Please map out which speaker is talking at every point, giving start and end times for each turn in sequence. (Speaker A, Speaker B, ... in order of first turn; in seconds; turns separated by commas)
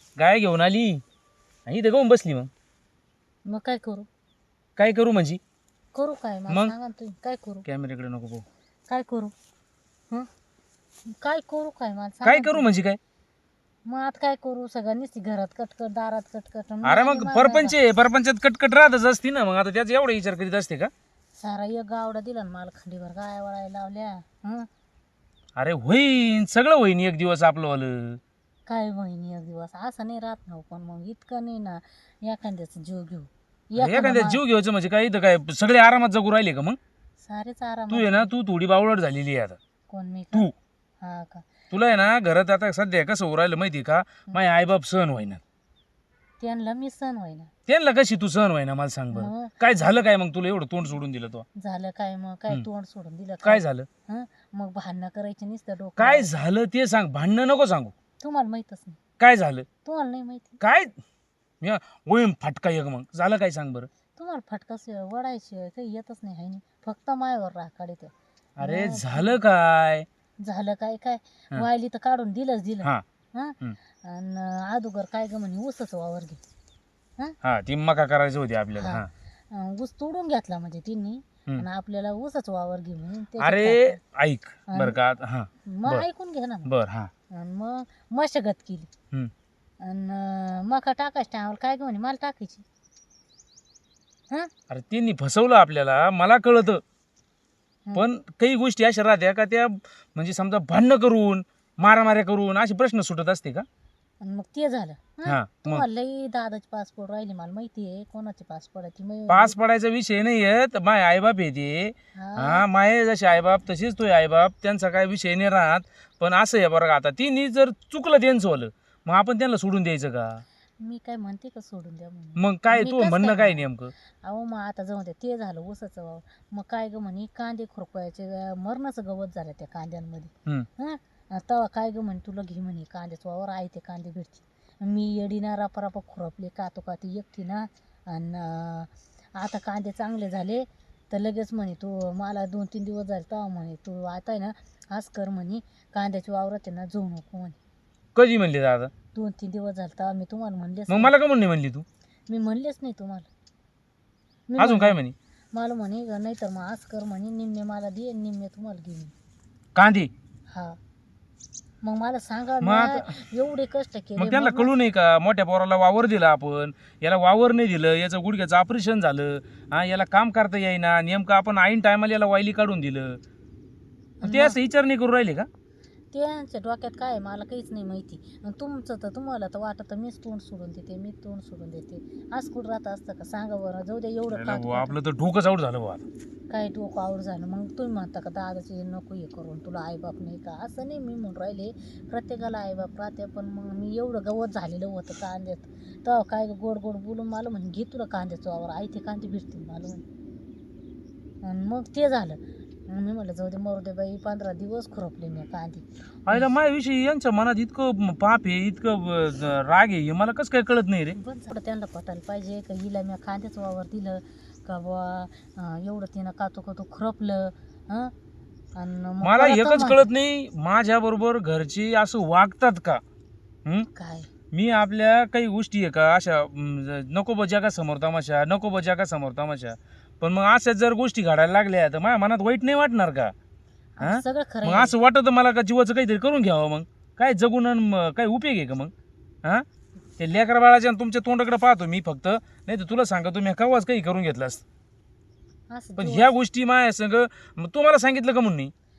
Speaker A: 0.2-1.0, Speaker A: 1.7-2.5, Speaker B: 3.5-4.1, Speaker A: 4.8-5.4, Speaker B: 6.0-7.7, Speaker A: 7.7-8.4, Speaker B: 8.9-9.3, Speaker B: 11.1-12.7, Speaker A: 12.2-13.0, Speaker B: 13.9-17.8, Speaker A: 16.8-20.9, Speaker B: 21.4-24.7, Speaker A: 25.6-28.2, Speaker B: 28.7-34.4, Speaker A: 33.8-36.8, Speaker B: 37.2-38.3, Speaker A: 37.9-39.6, Speaker B: 39.9-40.5, Speaker B: 41.0-41.5, Speaker A: 41.7-45.4, Speaker B: 46.4-47.5, Speaker A: 47.7-51.5, Speaker B: 49.1-49.5, Speaker B: 51.6-56.3, Speaker A: 53.4-53.9, Speaker A: 56.0-57.9, Speaker B: 58.2-59.0, Speaker A: 59.2-59.7, Speaker B: 59.9-60.6, Speaker A: 60.6-60.9, Speaker A: 61.6-63.9, Speaker B: 64.2-69.4, Speaker A: 68.6-70.1, Speaker B: 70.4-76.4, Speaker A: 77.4-79.1, Speaker B: 78.8-84.0, Speaker A: 83.4-86.1, Speaker B: 84.7-85.0, Speaker B: 85.7-86.7, Speaker A: 86.7-87.1, Speaker B: 87.3-88.9, Speaker B: 89.8-92.7, Speaker A: 94.7-96.8, Speaker A: 97.9-103.7, Speaker B: 104.2-109.5, Speaker A: 105.3-105.8, Speaker A: 109.3-120.4, Speaker B: 112.2-112.7, Speaker B: 120.8-147.6, Speaker A: 122.4-123.9, Speaker A: 148.2-148.9, Speaker B: 149.1-151.1, Speaker A: 150.9-151.8, Speaker B: 152.3-153.3, Speaker B: 154.5-155.0, Speaker A: 154.6-155.2, Speaker B: 155.5-159.1, Speaker A: 159.8-160.1, Speaker B: 160.5-160.8, Speaker B: 161.8-164.7, Speaker A: 162.6-163.1, Speaker A: 164.2-173.2, Speaker B: 174.2-174.6, Speaker A: 174.2-175.5, Speaker B: 176.1-185.0, Speaker A: 184.3-186.1, Speaker B: 186.5-200.0, Speaker B: 201.4-206.5, Speaker A: 206.3-211.2, Speaker B: 211.2-218.1, Speaker B: 218.8-220.0, Speaker A: 219.2-223.0, Speaker B: 223.9-224.3, Speaker A: 224.5-233.3, Speaker B: 234.0-235.0, Speaker A: 234.0-238.9, Speaker A: 240.2-244.6, Speaker B: 245.7-246.3, Speaker A: 246.0-248.7